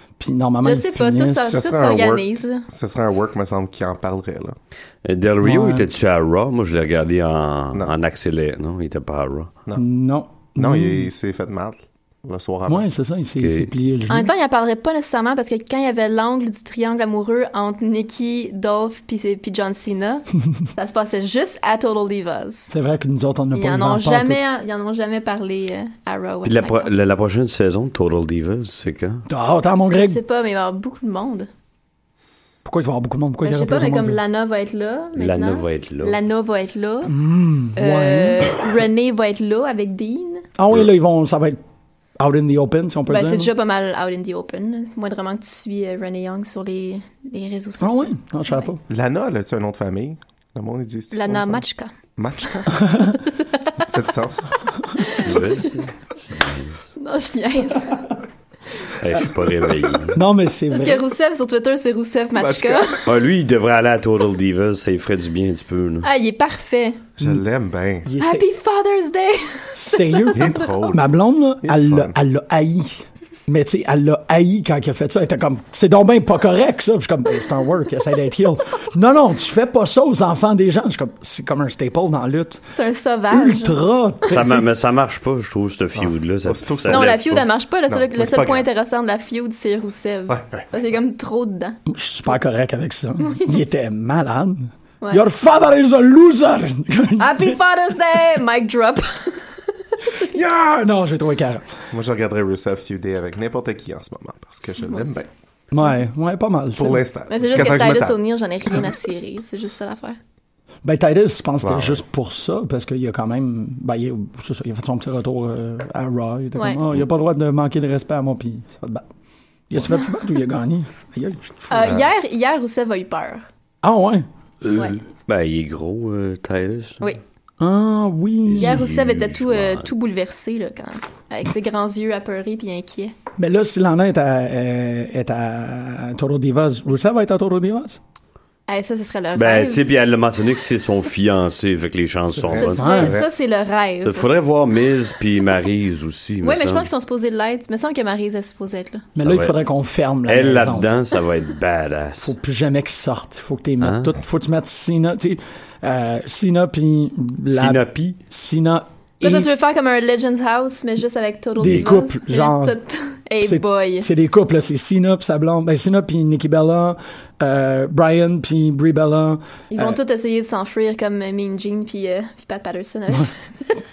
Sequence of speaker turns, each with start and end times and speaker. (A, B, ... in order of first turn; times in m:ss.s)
0:00.2-0:01.6 A
0:00.6-0:02.6 B
0:01.5-0:04.6 C
0:05.0-0:09.5 D
0:05.4-0:05.9 A
0:09.8-0:11.1 A
0:10.6-0:12.9 C
0:12.7-0:14.3 A
0:13.4-0:13.7 D
0:14.1-0:22.7 B
0:22.7-0:24.4 A
0:23.5-0:26.9 B
0:26.4-0:29.3 D
0:29.3-0:30.2 A
0:29.9-0:31.5 B
0:32.6-0:34.2 A
0:33.4-0:37.1 B
0:35.2-0:36.2 D
0:37.1-0:38.7 A
0:37.8-0:40.4 B
0:40.6-0:41.6 A
0:42.2-0:43.5 A
0:43.1-0:48.7 B
0:47.8-0:48.8 A
0:48.9-0:51.6 C
0:51.1-0:51.9 B
0:52.2-0:52.9 C
0:52.7-0:53.2 A
0:53.8-0:54.6 C
0:55.0-0:55.6 B
0:55.2-0:56.8 D
0:57.0-0:58.0 B
0:59.0-1:00.2 D
1:00.1-1:01.0 A
1:00.7-1:03.0 B
1:02.4-1:03.1 C
1:03.0-1:06.1 D
1:06.0-1:07.1 B
1:07.2-1:08.1 C
1:08.0-1:08.5 A
1:08.2-1:10.7 B
1:09.8-1:22.6 A
1:10.3-1:12.2 C
1:22.8-1:23.8 B
1:23.3-1:24.7 A
1:24.3-1:27.2 D
1:26.0-1:28.7 C
1:26.9-1:31.8 B
1:30.3-1:30.7 C
1:31.9-1:37.6 A
1:37.2-1:39.6 B
1:40.2-1:41.8 A
1:41.9-1:45.3 C
1:44.9-1:45.2 B
1:45.7-1:47.0 A
1:46.8-1:48.8 C
1:47.3-1:50.2 B
1:50.8-1:59.0 A
1:51.6-1:52.0 C
1:59.7-2:01.8 A
2:01.7-2:03.5 B
2:01.8-2:02.1 C
2:03.8-2:04.3 A
2:04.7-2:07.1 D
2:07.6-2:08.8 A
2:08.5-2:09.9 D
2:08.6-2:13.2 B
2:13.4-2:18.0 A
2:18.7-2:19.9 B
2:19.4-2:22.9 D
2:22.4-2:23.3 C
2:22.5-2:23.2 A
2:22.6-2:24.3 B
2:24.0-2:26.9 D
2:26.4-2:29.1 B
2:29.2-2:30.9 A
2:29.2-2:29.6 D
2:30.3-2:32.3 D
2:32.2-2:39.5 A
2:33.8-2:34.2 D
2:37.5-2:38.2 D
2:39.2-2:44.1 B
2:41.6-2:42.8 A
2:41.6-2:41.9 D
2:43.4-2:50.0 A
2:49.7-2:53.8 B